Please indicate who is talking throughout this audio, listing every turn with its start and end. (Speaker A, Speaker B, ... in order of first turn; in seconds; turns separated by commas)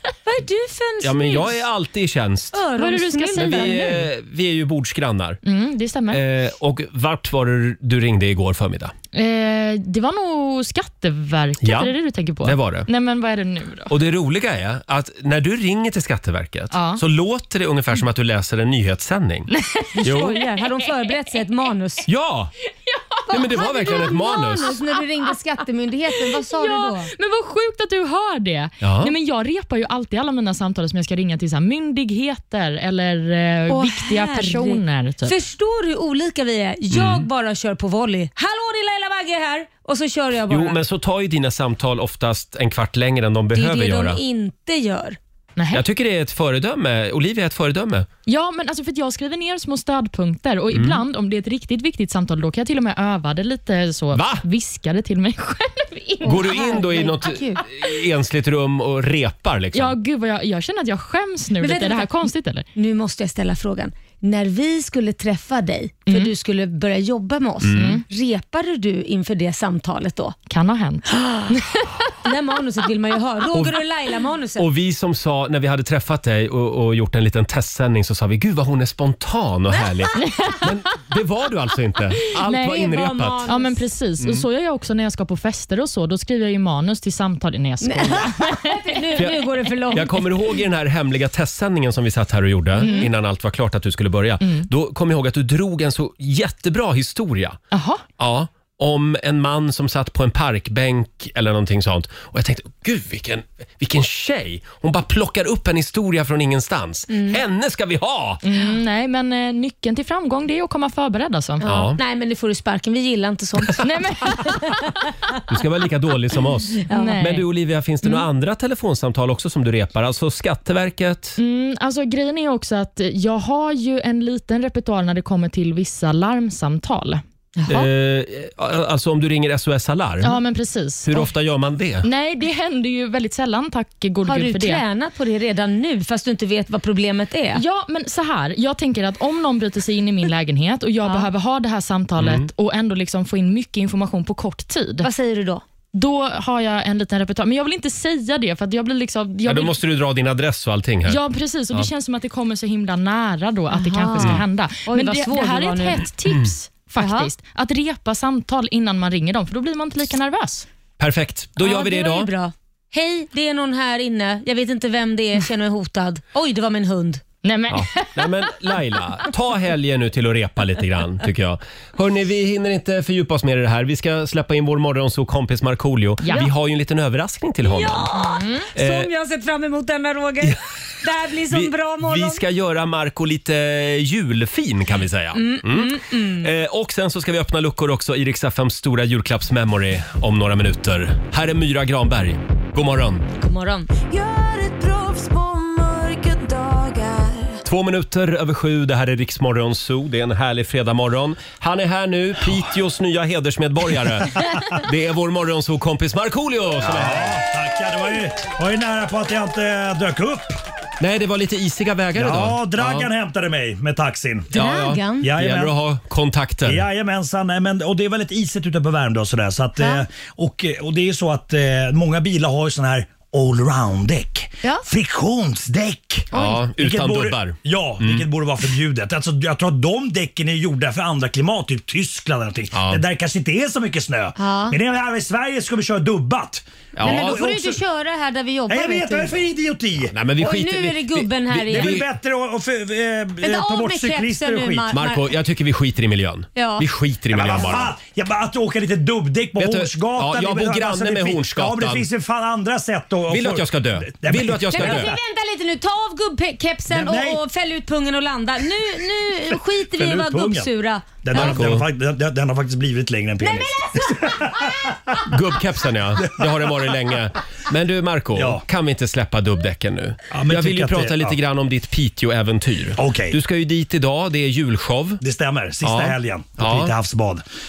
Speaker A: 0.3-1.6, Speaker B: 1.0-2.6, Speaker A: 2.5-4.0, Speaker C: 2.8-4.0, Speaker B: 3.4-5.4, Speaker C: 5.4-6.2, Speaker B: 6.1-8.9, Speaker C: 9.1-13.9, Speaker B: 11.6-12.9, Speaker B: 13.9-19.5, Speaker C: 16.7-17.0, Speaker C: 19.5-20.3, Speaker A: 19.9-22.1, Speaker B: 20.0-20.4, Speaker B: 22.1-22.5, Speaker C: 22.9-24.4, Speaker B: 23.3-24.8, Speaker A: 23.3-27.1, Speaker C: 26.3-35.4, Speaker B: 28.8-29.1, Speaker A: 33.7-40.8, Speaker B: 36.9-37.3, Speaker B: 40.5-44.2, Speaker A: 43.5-45.2, Speaker C: 45.6-45.8, Speaker B: 45.7-48.1, Speaker C: 48.3-56.7, Speaker B: 50.7-51.0, Speaker B: 54.1-54.5, Speaker A: 56.2-57.6, Speaker B: 56.2-60.0, Speaker C: 59.7-62.7, Speaker A: 61.6-70.4, Speaker B: 67.6-68.0, Speaker C: 67.7-68.0, Speaker C: 70.5-71.9, Speaker A: 71.1-71.5, Speaker A: 72.2-74.7, Speaker B: 73.5-73.8, Speaker B: 74.6-83.5, Speaker C: 82.4-83.0, Speaker A: 82.7-83.8, Speaker C: 83.5-89.0, Speaker B: 84.2-84.5, Speaker A: 87.8-90.3, Speaker B: 89.2-97.6, Speaker C: 92.8-93.1, Speaker C: 94.4-94.7, Speaker C: 97.7-98.0, Speaker B: 98.2-108.4, Speaker A: 107.1-107.4, Speaker C: 108.5-111.7, Speaker A: 111.6-114.8, Speaker B: 111.6-112.0, Speaker C: 113.8-114.8, Speaker B: 115.5-121.4, Speaker A: 116.9-117.2, Speaker C: 116.9-117.5, Speaker C: 121.4-127.2, Speaker A: 127.6-127.9, Speaker B: 127.7-130.4, Speaker C: 130.2-131.3, Speaker B: 131.0-132.1, Speaker C: 132.0-134.8, Speaker A: 134.2-137.6, Speaker C: 137.6-145.1, Speaker B: 142.2-142.5, Speaker A: 145.0-145.6, Speaker C: 145.9-149.8, Speaker B: 149.4-151.2, Speaker C: 151.1-160.7, Speaker A: 153.7-156.0, Speaker B: 154.2-154.4, Speaker B: 156.2-156.5, Speaker A: 157.0-157.3, Speaker B: 161.0-162.3, Speaker A: 161.6-167.2, Speaker C: 167.4-168.5, Speaker B: 167.7-178.1, Speaker C: 176.2-176.5, Speaker A: 177.7-182.4, Speaker C: 178.1-178.7, Speaker B: 178.8-179.1, Speaker B: 181.5-193.3, Speaker A: 185.3-186.5, Speaker A: 193.4-193.9, Speaker D: 194.1-197.6, Speaker B: 197.7-207.4, Speaker E: 206.8-210.6, Speaker B: 211.0-213.1, Speaker E: 212.2-214.5, Speaker B: 214.5-216.9, Speaker A: 214.5-215.3, Speaker E: 215.2-215.7, Speaker E: 216.7-237.8, Speaker A: 219.8-220.0, Speaker B: 226.3-228.3, Speaker B: 232.7-233.0, Speaker A: 234.4-234.8, Speaker B: 237.0-237.4, Speaker A: 237.0-239.4, Speaker E: 238.7-240.1, Speaker B: 240.1-242.1, Speaker A: 240.4-242.0, Speaker E: 241.7-245.0, Speaker A: 243.4-245.3, Speaker B: 244.9-247.9, Speaker A: 246.6-246.9, Speaker E: 247.3-255.2, Speaker A: 247.6-247.8, Speaker B: 249.6-252.1, Speaker B: 253.3-255.2, Speaker A: 254.7-261.7, Speaker E: 256.9-257.4, Speaker E: 259.9-260.7, Speaker E: 261.2-265.3, Speaker B: 261.3-261.9, Speaker A: 263.4-264.7, Speaker B: 265.3-275.2, Speaker E: 268.4-268.6, Speaker E: 270.3-271.4, Speaker E: 273.0-273.4, Speaker E: 275.2-277.4, Speaker B: 275.8-276.9